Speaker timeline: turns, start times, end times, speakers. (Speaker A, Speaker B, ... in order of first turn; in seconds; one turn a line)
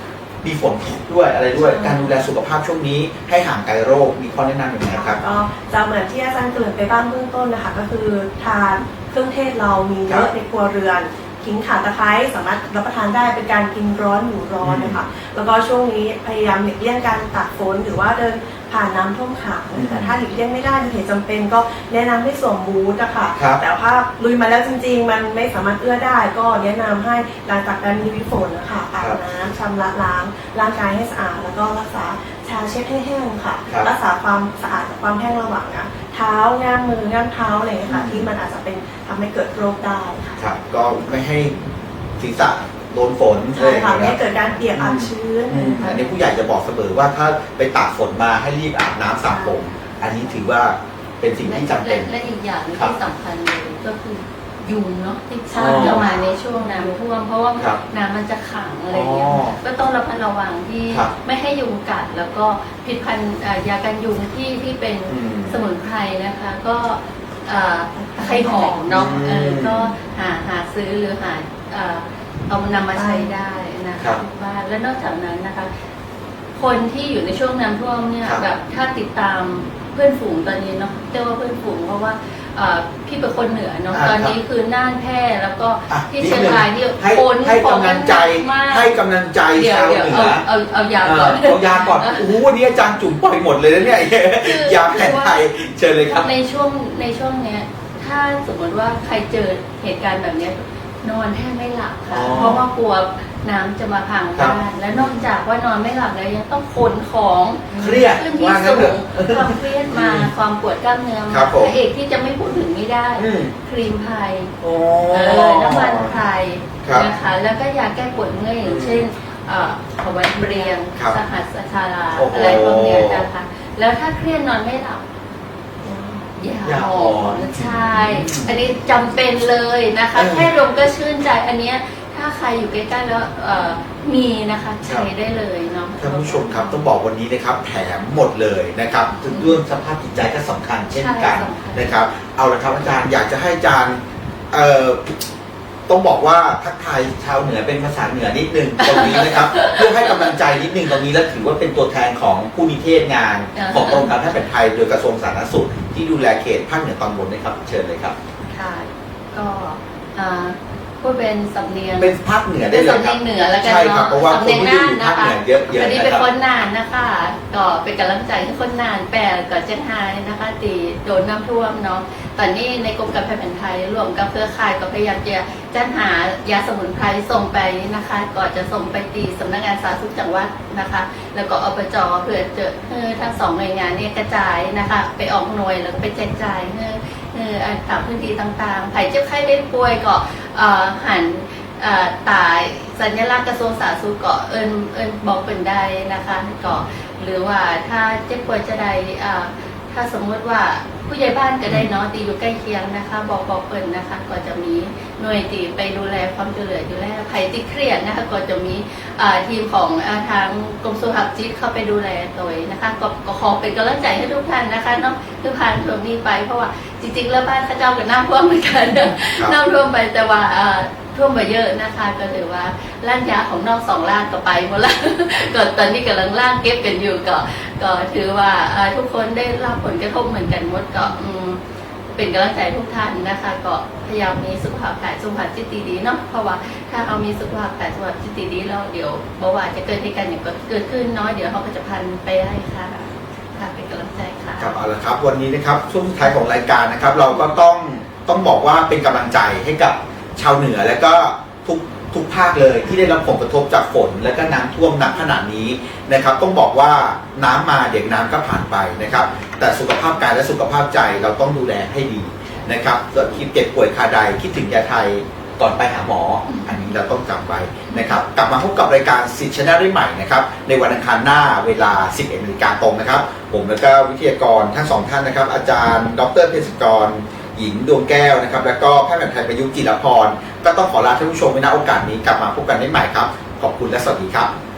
Speaker A: 0.4-5.2
Speaker B: 1.7-2.2
Speaker B: 4.9-40.4
Speaker A: 14.6-15.0
Speaker A: 19.8-20.2
Speaker A: 23.4-23.6
Speaker A: 37.9-38.3
Speaker A: 40.4-41.5
Speaker A: 42.2-44.2
Speaker B: 43.5-46.1
Speaker A: 44.7-52.1
Speaker C: 51.4-75.7
Speaker B: 55.5-57.0
Speaker A: 55.5-56.1
Speaker A: 58.9-59.6
Speaker A: 65.1-65.6
Speaker B: 68.0-68.9
Speaker A: 68.9-69.9
Speaker B: 72.9-73.3
Speaker C: 76.5-89.0
Speaker A: 83.9-84.3
Speaker A: 85.9-90.4
Speaker C: 89.5-92.3
Speaker A: 91.0-96.3
Speaker C: 94.4-95.5
Speaker C: 96.0-114.5
Speaker A: 102.1-102.7
Speaker A: 104.3-105.2
Speaker A: 107.7-110.3
Speaker A: 111.3-111.8
Speaker A: 113.2-113.5
Speaker A: 114.6-116.1
Speaker C: 115.1-125.0
Speaker A: 116.8-117.1
Speaker A: 118.6-119.0
Speaker B: 120.3-120.7
Speaker A: 122.2-123.3
Speaker B: 125.8-126.3
Speaker C: 126.3-136.8
Speaker A: 126.6-128.7
Speaker A: 130.2-130.5
Speaker A: 136.0-144.0
Speaker C: 139.1-139.6
Speaker C: 140.9-142.0
Speaker A: 144.5-145.2
Speaker A: 145.9-158.2
Speaker C: 148.8-150.3
Speaker C: 153.5-154.1
Speaker C: 158.5-231.6
Speaker A: 162.0-166.2
Speaker C: 232.1-244.7
Speaker A: 244.6-284.5
Speaker C: 266.5-266.7